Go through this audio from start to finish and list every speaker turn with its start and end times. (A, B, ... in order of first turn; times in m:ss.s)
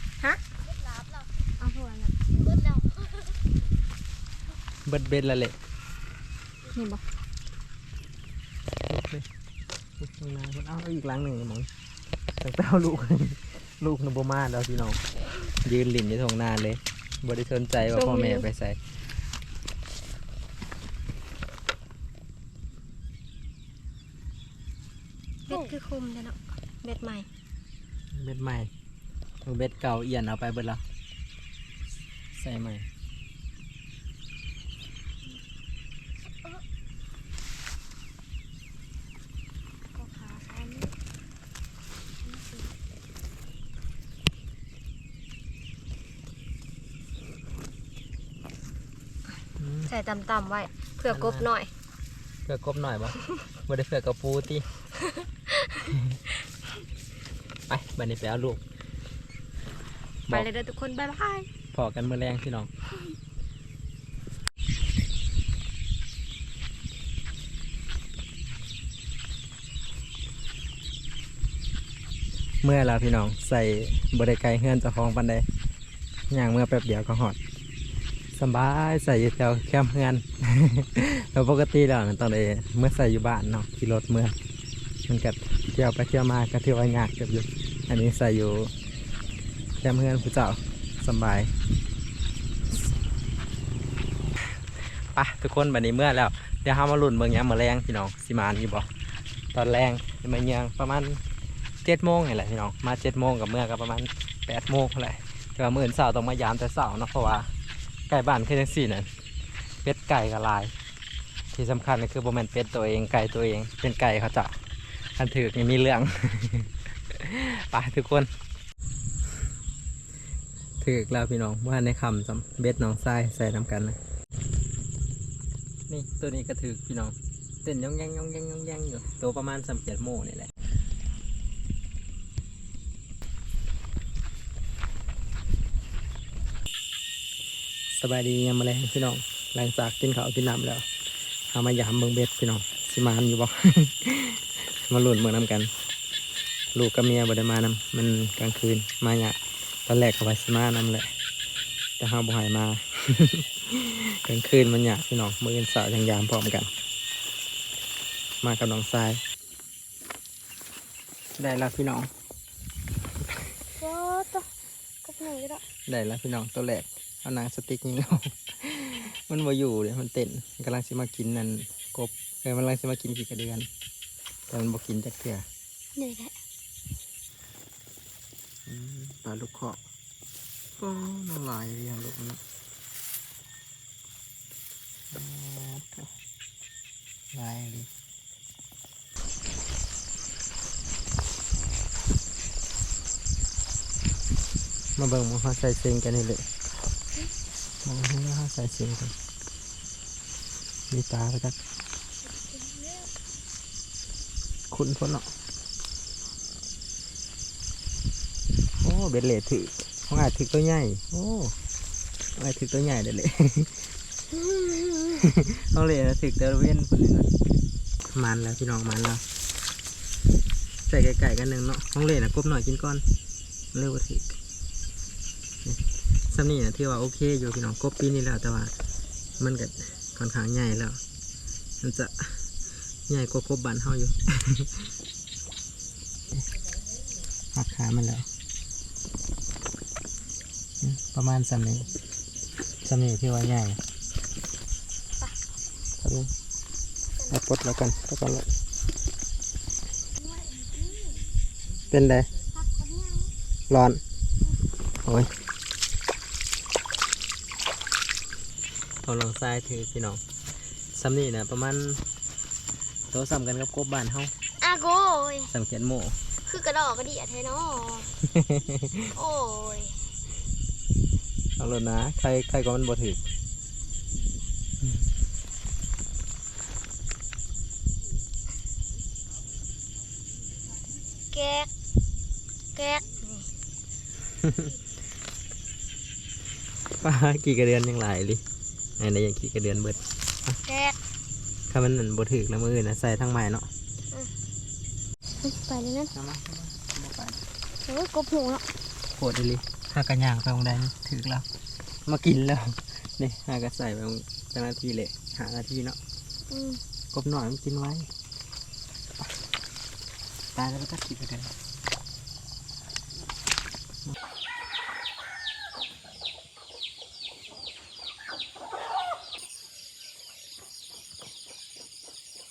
0:00.6-0:03.4 A
0:01.6-0:02.1 B
0:04.9-0:05.6 C
0:06.7-0:07.0 B
0:08.9-0:09.3 C
0:10.0-0:11.7 C
0:12.4-0:15.0 C
0:15.6-0:18.8 C
0:17.9-0:18.4 A
0:25.5-0:27.3 B
0:25.5-0:25.8 A
0:28.1-0:28.7 C
0:29.4-0:30.8 C
0:32.4-0:32.9 C
0:39.9-0:40.9 A
0:42.2-0:42.7 A
0:49.6-0:49.9 C
0:49.9-0:51.7 B
0:51.1-0:51.5 C
0:52.5-0:53.2 C
0:53.7-0:54.6 C
0:55.9-0:56.2 C
0:57.7-0:58.6 C
1:00.3-1:01.5 B
1:01.7-1:02.7 C
1:12.6-1:15.5 C
1:16.3-1:17.4 C
1:18.4-1:24.4 C
1:25.1-1:28.7 C
1:29.8-1:31.5 C
1:35.1-1:38.9 C
1:39.5-1:41.2 C
1:41.8-1:47.5 C
1:48.1-1:49.1 C
1:49.8-1:50.7 C
1:51.5-1:54.6 C
1:55.2-1:58.3 C
2:00.8-2:04.0 C
2:05.9-2:10.5 C
2:17.9-2:20.8 C
2:21.5-2:25.7 C
2:26.7-2:31.1 C
2:32.0-2:36.7 C
2:38.4-2:39.2 C
2:41.4-2:42.1 C
2:43.8-2:44.5 A
2:45.0-2:45.6 A
2:45.9-2:53.7 C
2:54.5-2:55.4 C
2:56.0-2:56.3 A
2:58.7-2:59.8 C
3:00.8-3:02.4 C
3:05.1-3:06.1 C
3:07.3-3:07.9 C
3:15.0-3:16.4 C
3:17.8-3:19.1 C
3:20.9-3:21.6 C
3:22.2-3:23.1 A
3:24.7-3:25.3 C
3:28.8-3:31.6 C
3:32.4-3:33.8 C
3:34.3-3:37.3 C
3:38.1-3:39.2 C
3:40.9-3:43.0 C
3:43.7-3:44.4 C
3:45.6-3:48.7 C
3:49.4-3:51.0 C
3:51.8-3:52.4 C
3:53.1-3:54.9 C
3:57.6-3:58.3 C
4:00.8-4:01.9 C
4:02.8-4:03.8 C
4:06.0-4:06.3 C
4:07.3-4:08.5 C
4:10.2-4:11.3 A
4:11.9-4:12.3 C
4:12.6-4:13.3 A
4:13.7-4:14.0 C
4:15.0-4:15.3 C
4:19.0-4:20.2 C
4:20.9-4:22.0 C
4:23.1-4:24.3 C
4:24.6-4:25.5 A
4:25.5-4:26.2 C
4:26.5-4:28.1 A
4:28.3-4:29.1 C
4:29.1-4:30.0 A
4:31.6-4:33.2 C
4:41.3-4:41.7 A
4:42.8-4:43.4 A
4:44.4-4:44.7 C
4:47.0-4:48.4 C
4:49.0-4:50.6 C
4:50.6-4:51.0 A
4:51.7-4:53.7 C
4:55.4-4:56.1 A
4:56.1-4:57.4 C
4:57.8-4:58.6 A
4:59.2-5:01.5 C
5:02.1-5:06.0 C
5:06.5-5:06.8 A
5:07.1-5:08.1 C
5:10.6-5:11.5 C